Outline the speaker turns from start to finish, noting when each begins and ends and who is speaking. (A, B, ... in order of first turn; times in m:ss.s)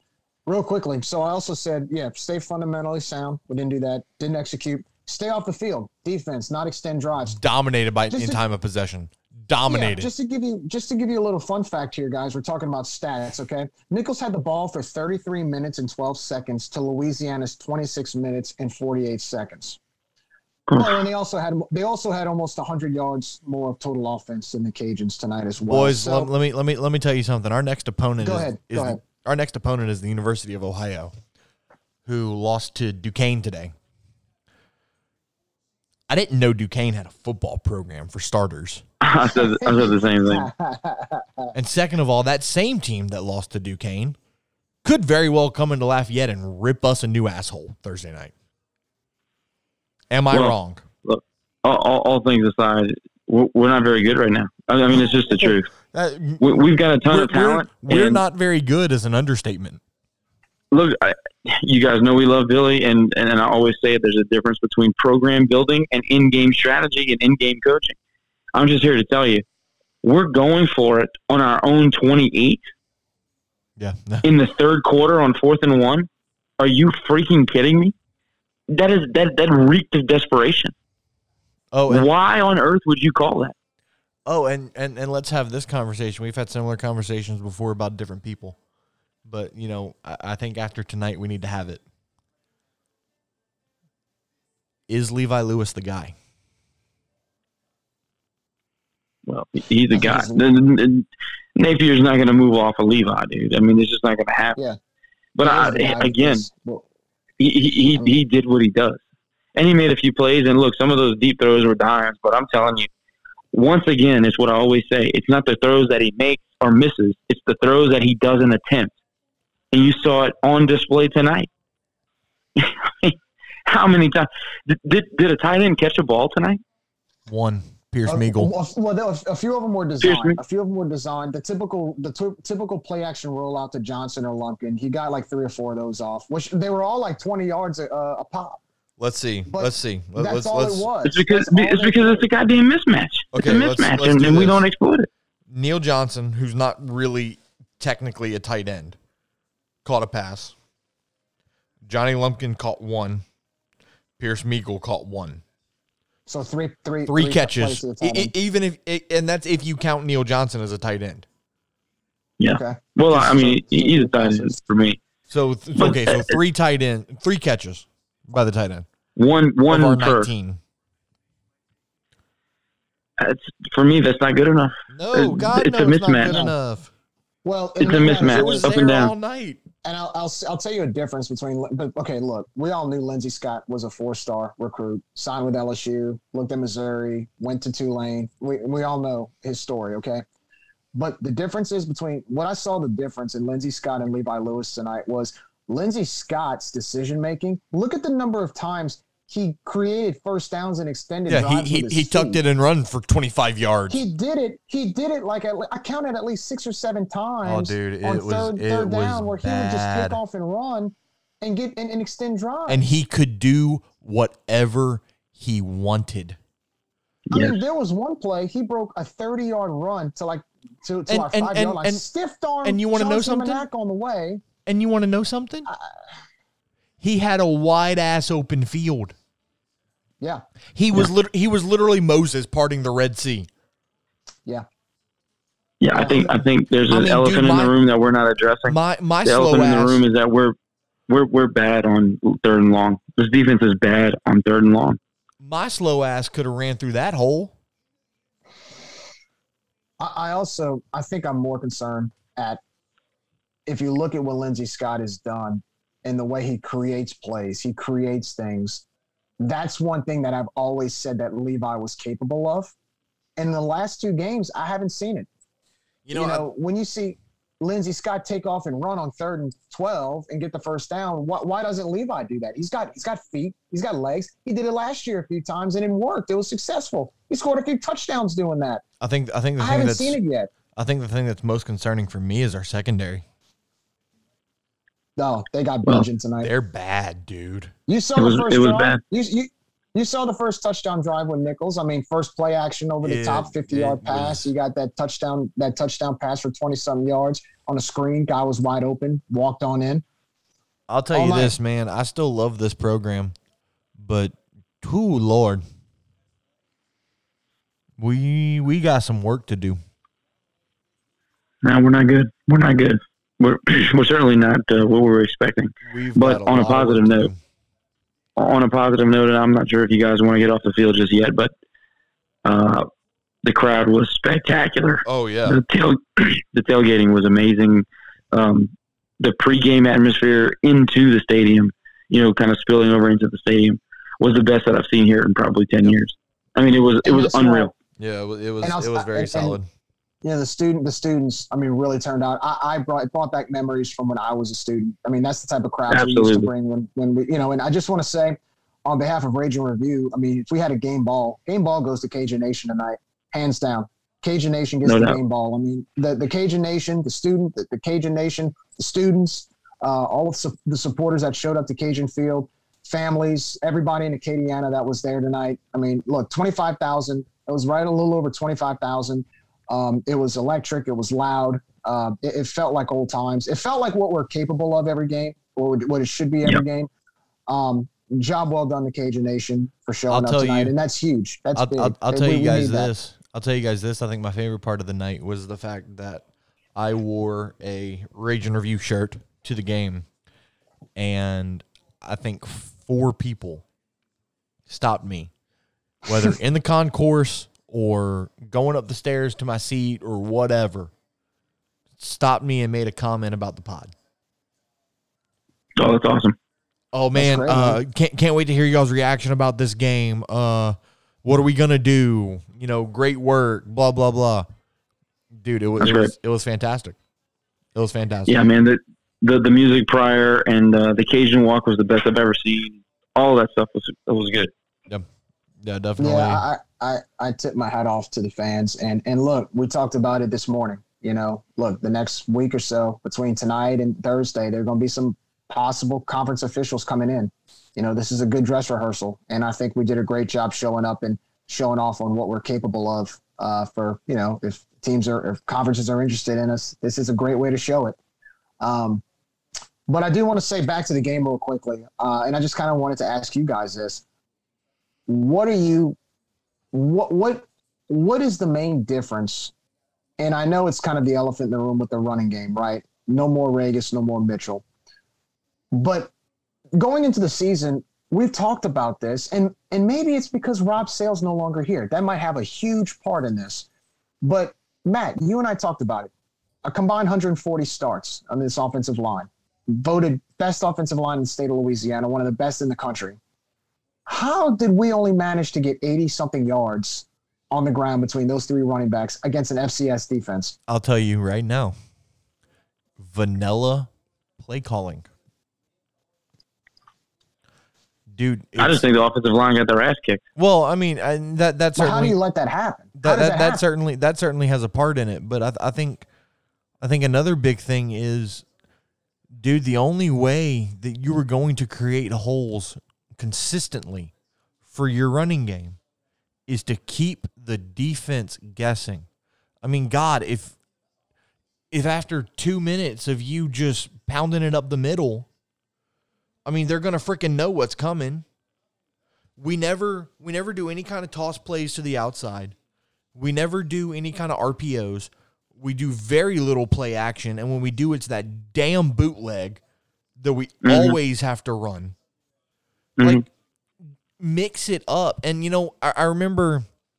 0:00.5-0:07.4 A
0:07.3-0:10.1 B
0:08.1-0:08.4 A
0:09.7-0:19.8 A
0:20.7-0:21.0 C
0:20.8-0:26.3 A
0:25.6-0:31.2 B
0:28.2-0:29.0 A
0:32.0-0:33.8 B
0:36.1-0:38.8 B
0:39.0-0:40.5 C
0:39.4-0:41.5 A
0:41.5-0:44.2 B
0:44.8-0:48.3 B
0:50.1-0:50.8 B
0:50.3-0:55.7 C
0:55.1-0:59.8 B
0:56.4-0:58.2 C
1:00.7-1:08.0 C
1:08.5-1:09.4 C
1:10.0-1:12.6 C
1:13.8-1:14.2 B
1:14.2-1:16.1 C
1:16.6-1:17.9 C
1:18.7-1:20.8 C
1:21.7-1:22.1 B
1:21.9-1:23.6 C
1:24.3-1:28.6 B
1:29.3-1:31.8 B
1:34.9-1:36.2 B
1:39.3-1:44.6 C
1:39.9-1:40.4 A
1:45.4-1:46.5 C
1:45.4-1:46.8 A
1:47.4-1:49.0 C
1:47.9-1:48.2 A
1:49.6-1:52.9 C
1:53.5-1:58.9 C
1:59.7-2:01.5 C
2:02.6-2:03.2 C
2:03.7-2:06.6 C
2:07.3-2:08.5 B
2:08.1-2:18.6 A
2:10.0-2:10.4 C
2:19.0-2:20.9 B
2:19.5-2:22.3 A
2:21.0-2:25.1 C
2:23.3-2:24.6 B
2:25.5-2:29.0 B
2:29.8-2:30.6 B
2:31.9-2:33.2 B
2:34.2-2:35.4 B
2:36.3-2:38.3 A
2:37.1-2:41.3 B
2:42.4-2:45.0 C
2:42.5-2:44.6 A
2:45.3-2:48.9 B
2:45.8-2:46.4 C
2:49.2-2:50.3 C
2:49.7-2:50.6 B
2:53.2-2:56.3 C
2:54.9-2:56.9 B
2:56.3-2:56.6 A
2:57.4-2:58.7 A
2:57.8-2:59.1 C
2:58.0-2:59.6 B
2:59.8-3:10.2 A
3:10.9-3:22.4 A
3:21.3-3:24.1 B
3:23.9-3:32.8 A
3:27.4-3:30.2 B
3:32.7-3:36.4 B
3:37.3-3:44.4 A
3:37.3-3:37.6 C
3:41.1-3:42.1 B
3:42.6-3:43.6 B
3:44.6-3:45.7 B
3:45.7-3:46.0 A
3:47.0-3:49.2 B
3:50.7-3:53.5 B
3:55.8-4:00.6 C
3:55.9-3:56.4 A
3:56.9-3:57.7 B
3:58.7-4:00.0 B
4:01.1-4:05.0 C
4:05.4-4:07.5 B
4:10.0-4:12.6 A
4:13.7-4:18.8 A
4:19.4-4:22.8 A
4:23.4-4:25.3 A
4:26.0-4:26.5 B
4:26.1-4:38.8 A
4:39.0-4:40.2 B
4:39.6-4:40.5 A
4:40.7-4:43.2 B
4:45.2-4:46.5 A
4:46.4-4:47.7 B
4:47.9-5:00.0 A
4:48.2-4:49.0 C
4:53.0-4:54.5 B
5:00.9-5:03.4 B
5:01.1-5:01.6 A
5:04.0-5:05.6 B
5:08.0-5:09.8 B
5:11.6-5:17.3 C
5:15.9-5:17.4 B
5:18.4-5:21.5 C
5:22.4-5:22.9 C
5:23.4-5:37.7 C
5:25.0-5:25.6 B
5:37.0-5:37.7 A
5:38.0-5:39.7 B
5:38.6-5:39.6 A
5:40.2-6:16.9 A
5:45.9-5:46.5 C
5:54.8-5:55.2 C
6:17.5-6:22.9 A
6:20.1-6:20.7 B
6:21.6-6:26.2 B
6:26.8-6:30.1 B
6:31.0-6:33.6 B
6:34.7-6:35.3 B
6:36.0-6:40.9 B
6:42.0-6:43.9 B
6:45.8-6:46.4 C
6:46.9-6:54.5 B
6:47.2-6:47.8 A
6:55.3-6:57.0 B
6:55.8-6:56.1 C
6:57.8-6:58.4 B
6:58.3-7:04.5 C
7:05.6-7:06.4 B
7:06.0-7:28.0 A
7:28.6-7:29.0 A
7:29.9-7:34.0 A
7:35.1-7:36.0 A
7:36.7-7:39.5 A
7:40.2-7:44.6 A
7:45.7-7:46.1 A
7:46.8-7:53.7 A
7:54.2-7:56.1 A
7:56.6-8:03.2 A
8:04.1-8:10.6 A
8:10.7-8:11.8 B
8:13.0-8:15.1 B
8:18.1-8:18.8 B
8:18.6-8:20.2 C
8:20.4-8:22.2 B
8:21.8-8:23.6 A
8:23.0-8:26.1 B
8:26.8-8:28.4 B
8:29.3-8:34.1 B
8:34.7-8:35.8 B
8:36.5-8:39.1 B
8:39.6-8:40.6 B
8:41.7-8:45.3 B
8:46.5-8:48.3 B
8:49.4-8:52.6 B
8:53.2-8:59.6 B
9:00.2-9:02.0 B
9:00.6-9:01.0 C
9:03.0-9:03.2 C
9:03.0-9:03.3 B
9:04.2-9:06.7 B